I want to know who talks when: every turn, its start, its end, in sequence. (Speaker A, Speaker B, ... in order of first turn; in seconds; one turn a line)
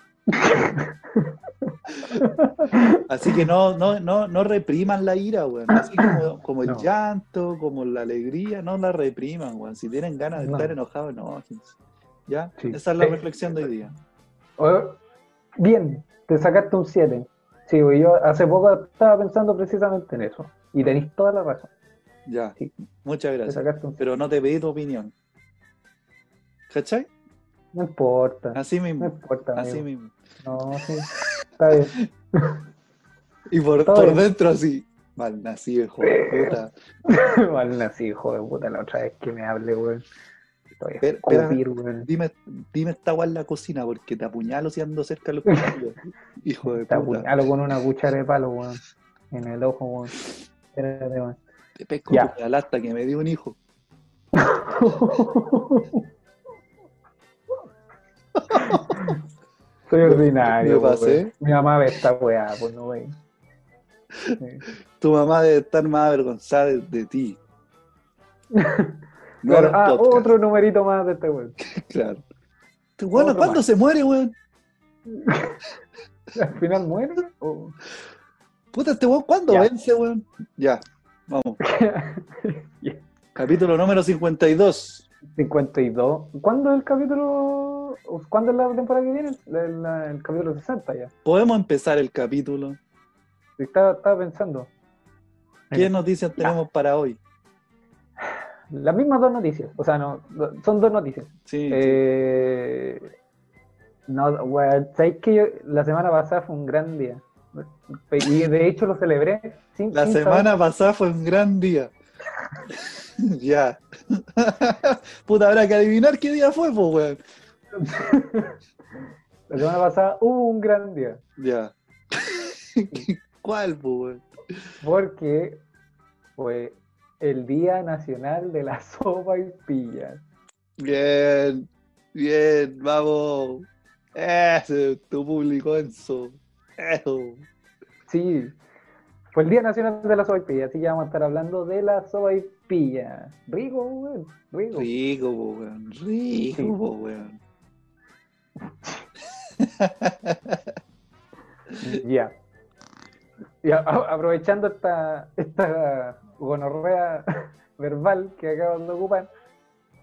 Speaker A: 0.3-3.4
Speaker B: 3.1-11.8
Speaker A: 5.7-6.9
Speaker A: 10.4-10.7
Speaker B: 12.3-13.9
Speaker A: 12.6-13.2
Speaker A: 14.6-15.0
Speaker A: 15.6-21.7
Speaker B: 22.3-25.1
Speaker A: 23.5-24.0
Speaker B: 26.7-27.1
Speaker A: 27.7-29.9
Speaker B: 28.5-30.1
Speaker A: 30.4-32.6
Speaker B: 33.5-36.7
Speaker A: 33.9-34.2
Speaker A: 36.0-40.0
Speaker A: 40.8-42.1
Speaker B: 41.0-47.3
Speaker A: 45.5-45.8
Speaker A: 46.8-50.2
Speaker A: 50.7-51.4
Speaker B: 51.8-53.6
Speaker A: 54.4-56.0
Speaker B: 58.4-59.0
Speaker A: 58.5-59.2
Speaker A: 59.9-63.1
Speaker B: 60.0-61.3
Speaker A: 64.4-64.7
Speaker B: 65.0-67.4
Speaker A: 68.5-71.6
Speaker B: 69.4-70.3
Speaker B: 71.6-72.2
Speaker B: 73.0-74.4
Speaker A: 73.1-73.6
Speaker A: 75.1-75.6
Speaker A: 76.3-77.8
Speaker B: 78.7-81.6
Speaker A: 81.6-83.0
Speaker B: 83.3-85.1
Speaker A: 85.3-91.1
Speaker B: 91.2-92.8
Speaker A: 93.6-94.7
Speaker A: 95.7-96.5
Speaker B: 95.7-97.2
Speaker A: 98.7-103.1
Speaker B: 101.5-102.0
Speaker A: 104.1-110.5
Speaker B: 109.9-111.9
Speaker B: 112.7-117.2
Speaker A: 117.8-118.6
Speaker A: 119.5-121.2
Speaker B: 121.4-124.3
Speaker A: 124.8-125.6
Speaker A: 126.4-130.2
Speaker B: 130.8-137.4
Speaker A: 138.1-138.6
Speaker A: 139.3-144.9
Speaker B: 144.7-147.4
Speaker A: 148.6-149.1
Speaker B: 149.6-150.7
Speaker A: 151.8-152.3
Speaker A: 153.6-159.3